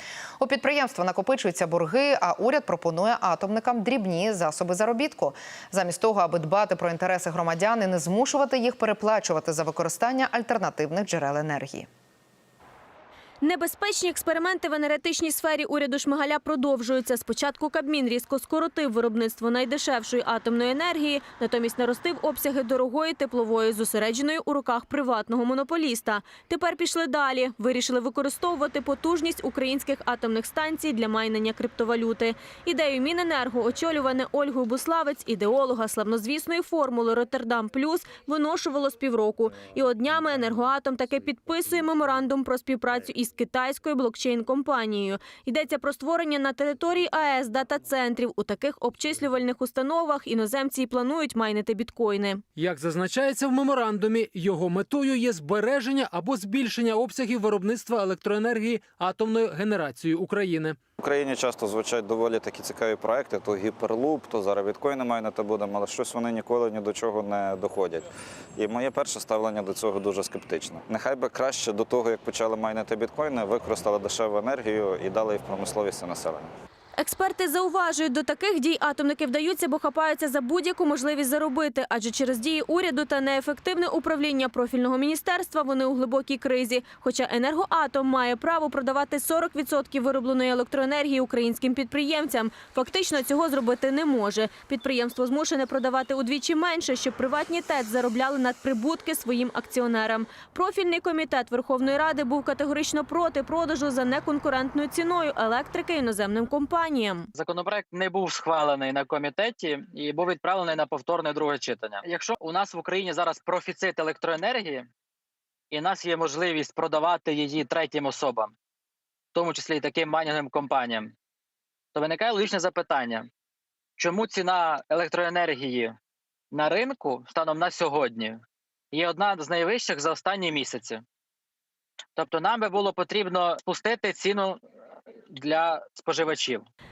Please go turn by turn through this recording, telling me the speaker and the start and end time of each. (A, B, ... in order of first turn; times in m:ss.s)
0:00.4-0:11.9 A
0:13.4-0:52.4 B
0:52.6-1:00.8 C
1:01.0-1:08.0 D
1:08.6-1:16.5 D
1:17.0-1:47.3 B
1:47.4-1:54.9 E
1:55.7-1:58.5 E
1:59.3-2:01.1 E
2:02.0-2:03.3 E
2:04.0-2:06.0 E
2:06.5-2:08.4 E
2:08.9-2:11.0 E
2:12.2-2:14.6 E
2:15.3-2:16.7 E